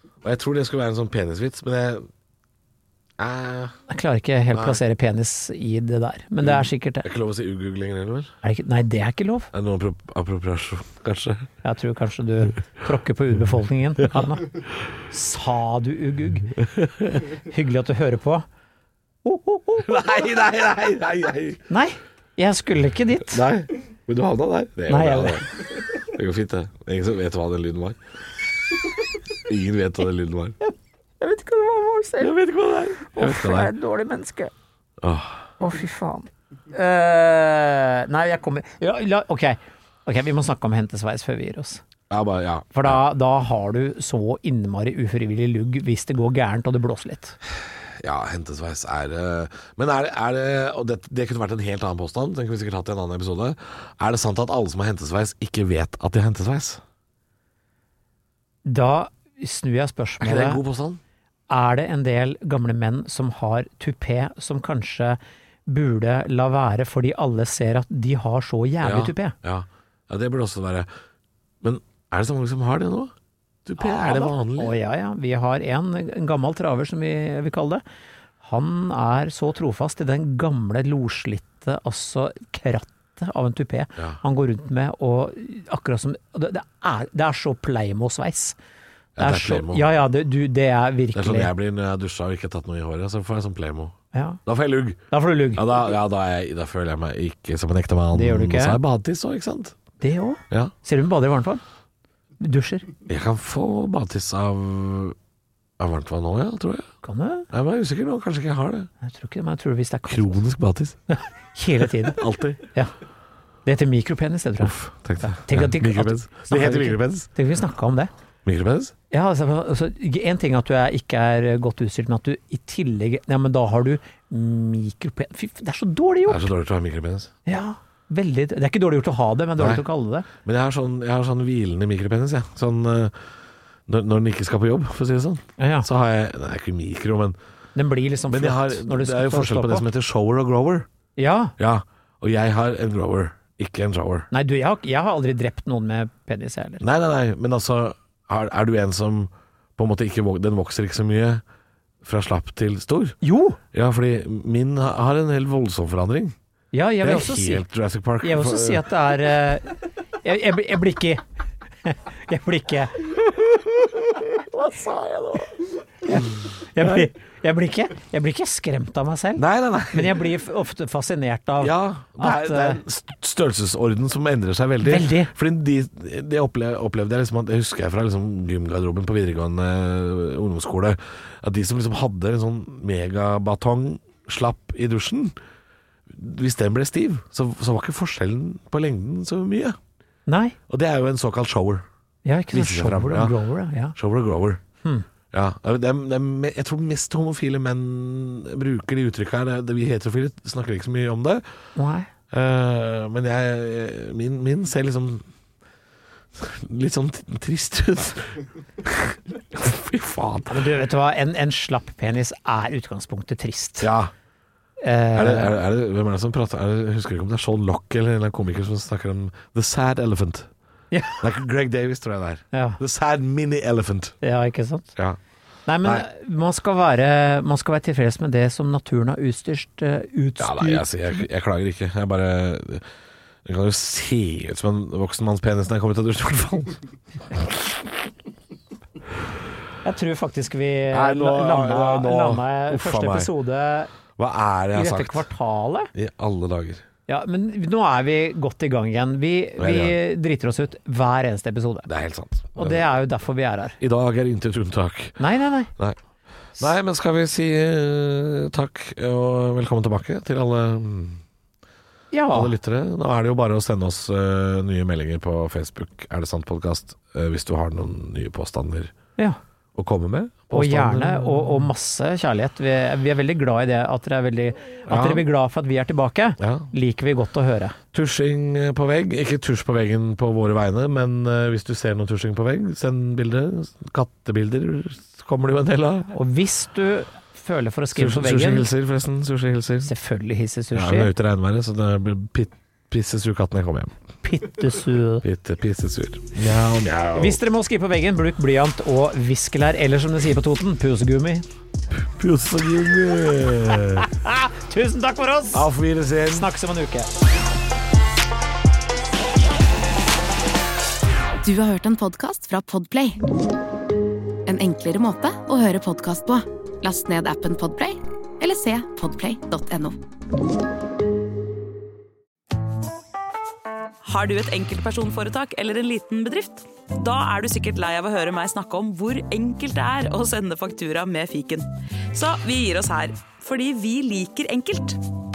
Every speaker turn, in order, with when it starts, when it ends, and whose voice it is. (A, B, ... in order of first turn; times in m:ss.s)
0:00.2-0:02.1 A
0:03.2-0:03.7 A
0:03.9-0:07.1 B
0:04.5-0:04.8 A
0:06.4-0:08.3 A
0:08.4-0:09.5 B
0:09.5-0:11.5 A
0:11.6-0:16.5 B
0:17.4-0:18.4 B
0:19.2-0:19.9 B
0:19.8-0:21.6 A
0:21.7-0:23.4 B
0:23.3-0:28.0 A
0:24.9-0:25.4 B
0:29.4-0:30.5 A
0:30.6-0:32.3 B
0:32.2-0:33.7 A
0:33.1-0:34.5 B
0:35.0-0:35.5 A
0:35.6-0:41.8 B
0:42.1-0:43.0 A
0:42.7-0:47.4 B
0:48.0-0:56.8 A
0:58.6-1:00.6 B
1:00.2-1:01.0 A
1:01.5-1:09.3 B
1:08.8-1:10.9 A
1:11.6-1:13.1 A
1:13.6-1:14.7 A
1:13.8-1:17.8 B
1:18.4-1:28.6 B
1:29.2-1:29.9 A
1:29.2-1:31.5 B
1:31.1-1:39.7 A
1:34.1-1:34.4 B
1:35.1-1:35.6 B
1:38.1-1:38.8 B
1:40.0-1:41.6 B
1:42.4-1:42.9 B
1:43.1-1:45.2 A
1:45.8-1:46.9 A
1:47.0-1:47.5 B
1:47.5-1:48.9 A
1:49.0-1:50.4 B
1:50.1-1:51.0 A
1:51.1-1:52.2 B
1:52.0-1:52.6 A
1:53.6-1:58.1 B
1:54.6-1:57.3 A
1:58.4-1:58.9 A
1:59.1-2:06.5 B
2:06.3-2:07.3 A
2:07.4-2:10.3 B
2:09.6-2:09.8 A
2:10.4-2:13.2 A
2:13.9-2:17.4 A
2:15.6-2:15.9 B
2:17.7-2:19.9 B
2:18.3-2:20.9 A
2:21.2-2:21.5 B
2:21.6-2:24.3 A
2:24.3-2:26.8 B
2:26.8-2:31.4 A
2:32.0-2:33.2 A
2:33.2-2:33.6 B
2:33.7-2:36.3 A
2:36.7-2:37.6 B
2:37.0-2:38.9 A
2:38.2-2:41.2 B
2:41.8-2:44.2 B
2:44.3-2:45.6 A
2:46.0-2:52.8 B
2:49.4-2:50.3 A
2:51.6-3:05.3 A
2:54.8-2:55.3 B
3:06.1-3:09.8 A
3:10.3-3:10.6 B
3:10.7-3:11.8 A
3:12.2-3:14.0 B
3:12.5-3:13.3 A
3:13.9-3:14.6 A
3:15.3-3:21.4 A
3:21.8-3:22.1 B
3:22.3-3:25.2 A
3:26.3-3:30.7 A
3:30.5-3:33.9 B
3:33.8-3:34.1 A
3:34.8-3:35.6 B
3:35.1-3:40.5 A
3:40.9-3:41.2 B
3:41.2-3:44.1 A
3:42.5-3:42.8 B
3:44.2-3:44.9 B
3:45.7-3:51.2 B
3:50.4-3:52.8 A
3:53.4-3:57.8 A
3:59.8-4:03.9 B
4:00.9-4:03.3 A
4:04.2-4:05.3 A
4:04.7-4:05.9 B
4:05.9-4:06.8 A
4:07.1-4:11.9 B
4:09.6-4:10.0 A
4:11.9-4:12.9 A
4:12.5-4:13.8 B
4:13.8-4:15.2 A
4:15.2-4:15.7 B
4:16.6-4:21.2 A
4:22.1-4:22.5 B
4:22.3-4:28.9 A
4:29.7-4:31.7 A
4:30.5-4:37.8 B
4:34.9-4:35.2 A
4:36.4-4:36.7 A
4:37.9-4:46.1 A
4:46.1-4:48.7 B
4:47.9-4:49.9 A
4:49.8-4:51.1 B
4:50.7-4:53.9 A
4:54.2-4:55.2 B
4:55.2-4:57.4 A
4:57.1-5:01.4 B
5:01.9-5:04.1 A
5:04.2-5:05.7 B
5:05.5-5:06.5 A
5:06.3-5:07.1 B
5:11.4-5:13.2 C
5:14.4-5:20.0 C
5:24.0-5:35.0 D